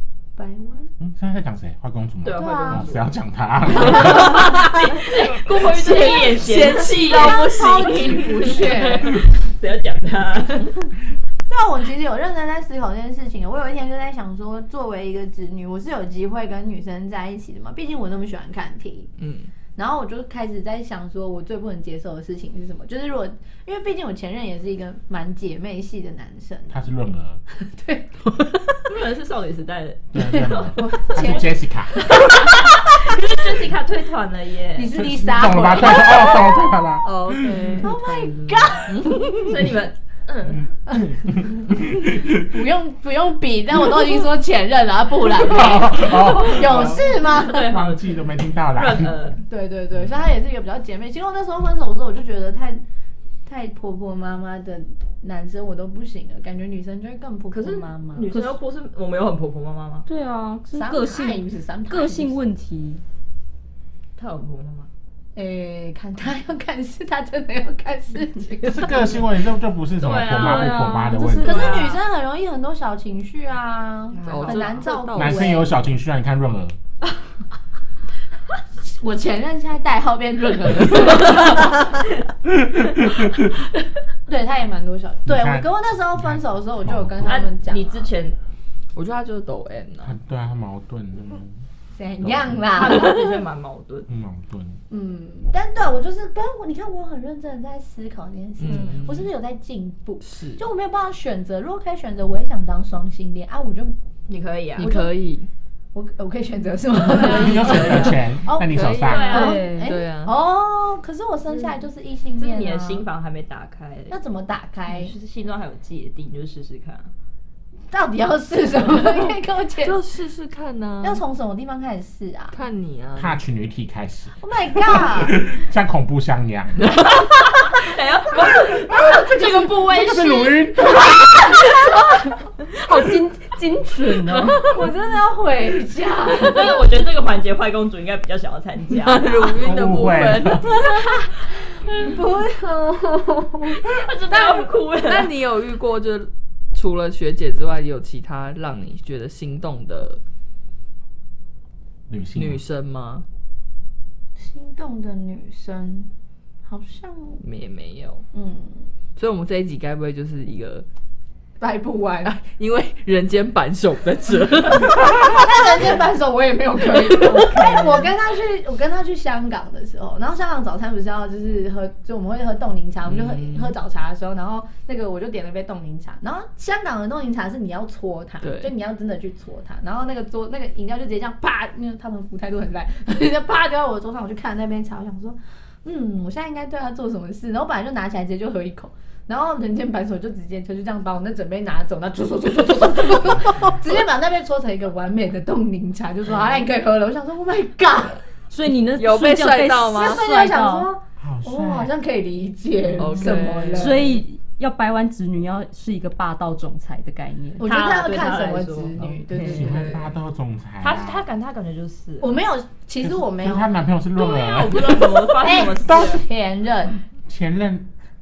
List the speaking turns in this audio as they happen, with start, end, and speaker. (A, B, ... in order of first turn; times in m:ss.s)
0:00.4-0:00.9 A
0:01.0-0:04.5 B
0:02.2-0:03.1 C
0:02.4-0:02.9 A
0:03.7-0:07.5 C
0:04.0-0:09.1 D
0:05.9-0:09.2 A
0:08.2-0:10.9 C
0:11.5-0:19.1 A
0:19.2-0:19.5 D
0:19.8-0:26.8 A
0:26.7-0:27.4 B
0:27.6-0:28.1 A
0:28.3-0:28.8 D
0:28.9-0:35.0 C
0:30.1-0:32.1 B
0:30.2-0:32.4 A
0:34.8-0:36.8 A
0:34.9-0:37.7 B
0:37.0-0:39.5 D
0:37.8-0:39.6 A
0:39.4-0:40.6 C
0:40.6-0:42.6 B
0:42.4-0:47.7 A
0:45.4-0:49.3 B
0:46.2-0:49.4 C
0:49.5-0:52.8 A
0:53.5-0:58.3 A
0:57.5-1:00.0 C
0:58.3-0:58.6 E
1:00.1-1:03.0 E
1:00.7-1:02.4 A
1:04.2-1:04.9 C
1:05.4-1:09.1 A
1:08.6-1:11.8 B
1:10.0-1:12.0 C
1:10.4-1:11.9 E
1:11.4-1:15.7 A
1:14.1-1:15.0 C
1:14.3-1:15.6 D
1:15.1-1:16.8 B
1:18.8-1:21.9 A
1:24.3-1:28.1 A
1:25.3-1:27.5 B
1:27.3-1:28.4 C
1:29.0-1:30.2 D
1:30.0-1:31.5 B
1:32.0-1:33.4 A
1:32.2-1:32.7 B
1:32.7-1:34.1 C
1:34.1-1:34.8 B
1:34.9-1:44.0 A
1:38.6-1:39.3 D
1:38.6-1:39.2 C
1:40.2-1:40.6 D
1:44.3-1:44.9 C
1:44.8-1:45.5 D
1:44.8-1:45.2 A
1:45.9-1:53.0 A
1:47.1-1:49.4 B
1:47.2-1:50.4 D
1:49.0-1:49.6 C
1:49.3-1:50.0 E
1:51.5-1:51.8 C
1:52.4-1:54.2 C
1:54.1-1:55.2 A
1:54.9-1:57.1 C
1:57.9-2:00.0 A
1:59.8-2:01.2 D
2:01.0-2:02.6 A
2:02.5-2:03.4 D
2:03.2-2:06.9 B
2:04.4-2:05.4 A
2:06.8-2:07.2 D
2:07.1-2:10.7 C
2:08.8-2:10.1 A
2:09.9-2:11.6 B
2:11.1-2:12.2 A
2:12.7-2:14.8 E
2:14.7-2:16.9 A
2:16.4-2:19.5 C
2:19.0-2:21.1 D
2:19.6-2:20.8 B
2:21.8-2:23.9 A
2:23.9-2:25.3 C
2:24.3-2:30.2 D
2:32.1-2:32.6 B
2:32.4-2:33.2 D
2:34.4-2:36.1 A
2:36.6-2:37.4 A
2:37.4-2:38.2 D
2:38.3-2:38.9 A
2:39.2-2:40.8 D
2:41.6-2:42.4 A
2:42.2-2:46.0 D
2:45.2-3:18.2 A
2:46.9-2:48.0 D
2:53.1-2:53.7 D
2:58.4-2:58.7 D
3:18.5-3:20.9 E
3:19.0-3:20.3 D
3:19.9-3:24.1 A
3:21.2-3:21.9 B
3:23.0-3:24.1 D
3:23.1-3:27.7 E
3:27.6-3:30.1 A
3:27.6-3:29.2 C
3:29.4-3:30.1 D
3:29.4-3:31.3 B
3:30.8-3:32.4 C
3:32.2-3:33.8 A
3:33.0-3:36.2 B
3:34.2-3:36.2 C
3:35.4-3:37.0 A
3:37.3-3:37.9 B